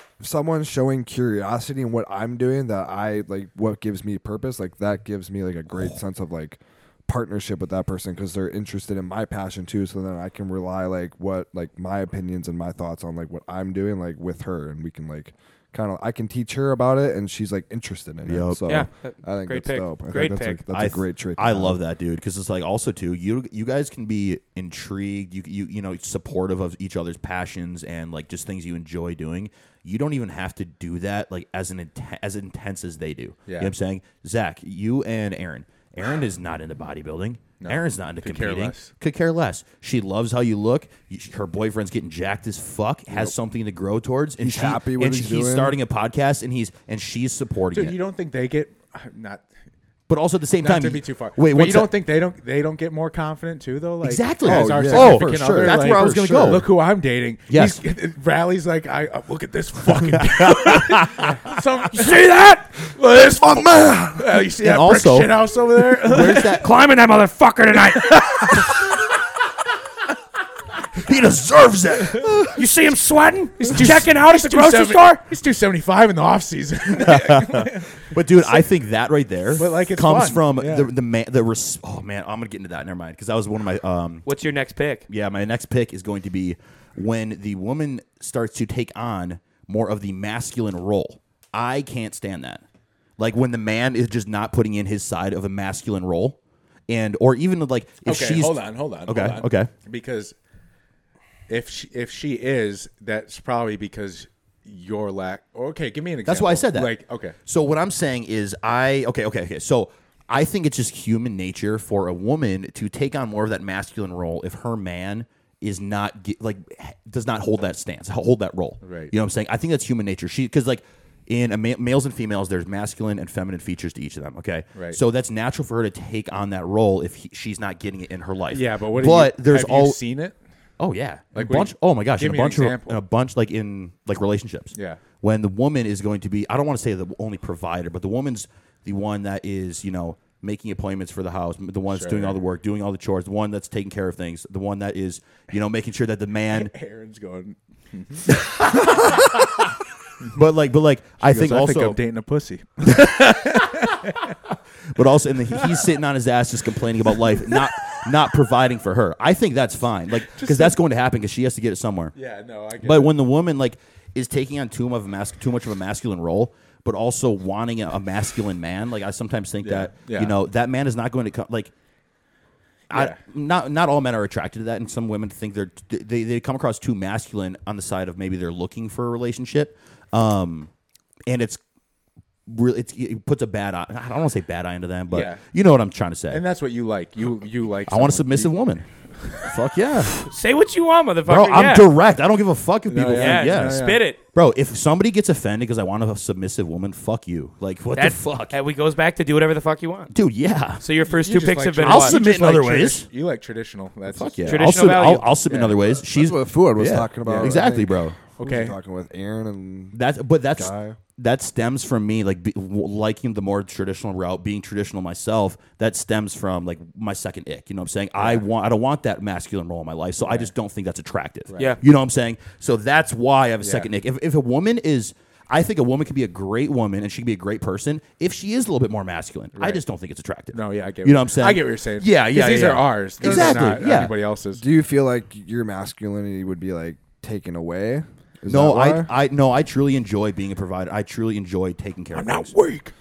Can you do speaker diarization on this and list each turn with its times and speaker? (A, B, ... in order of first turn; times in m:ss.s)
0:00.2-0:21.8 A
0:18.3-0:18.8 B
0:18.7-0:20.6 C
0:20.7-0:48.0 B
0:33.5-0:33.7 D
0:37.6-0:38.9 D
0:44.4-0:45.8 A
0:47.7-0:49.4 D
0:50.1-0:51.9 B
0:50.6-1:02.3 D
0:54.0-0:56.7 B
0:54.4-0:55.9 A
0:57.5-0:57.8 B
1:00.1-1:01.3 B
1:01.9-1:02.8 C
1:02.8-1:06.6 D
1:04.6-1:05.3 B
1:06.0-1:06.7 B
1:06.4-1:08.8 C
1:07.9-1:08.7 D
1:11.0-1:12.6 B
1:12.5-1:15.2 C
1:13.7-1:18.0 D
1:16.9-1:24.3 B
1:19.6-1:20.9 D
1:24.3-1:25.1 C
1:25.1-1:32.6 B
1:33.2-1:36.4 B
1:36.9-1:39.7 B
1:38.0-1:40.4 D
1:41.5-1:47.4 D
1:46.2-2:10.0 B
1:58.8-1:59.1 D
2:08.5-2:10.4 D
2:10.8-2:26.7 B
2:11.3-2:13.0 D
2:14.7-2:15.0 D
2:21.9-2:22.4 D
2:26.5-2:28.3 D
2:28.3-2:29.6 B
2:30.3-2:32.0 B
2:31.2-2:34.3 D
2:34.9-2:42.1 B
2:35.6-2:35.8 D
2:40.3-2:40.8 D
2:42.2-2:43.1 D
2:42.8-2:51.7 B
2:49.6-2:50.3 D
2:52.9-2:53.2 D
2:52.9-3:00.7 B
3:01.3-3:01.6 B
3:02.5-3:06.4 B
3:05.1-3:05.4 D
3:06.3-3:08.6 D
3:07.9-3:10.3 B
3:10.3-3:11.9 C
3:11.3-3:18.6 B
3:12.9-3:14.0 D
3:13.1-3:14.2 C
3:18.0-3:20.1 C
3:20.1-3:20.8 B
3:20.8-3:22.8 C
3:21.0-3:24.7 D
3:21.8-3:23.1 B
3:24.1-3:28.2 B
3:24.4-3:25.3 C
3:25.5-3:25.8 D
3:26.0-3:30.0 A
3:27.2-3:27.6 D
3:28.4-3:28.8 D
3:29.9-3:54.2 B
3:30.6-3:31.0 A
3:38.2-3:38.4 D
3:40.2-3:40.5 D
3:41.5-3:41.8 D
3:43.6-3:43.9 D
3:50.5-3:54.6 D
3:53.2-3:54.0 A
3:54.6-3:59.1 A
3:58.5-4:02.5 B
4:02.1-4:02.9 D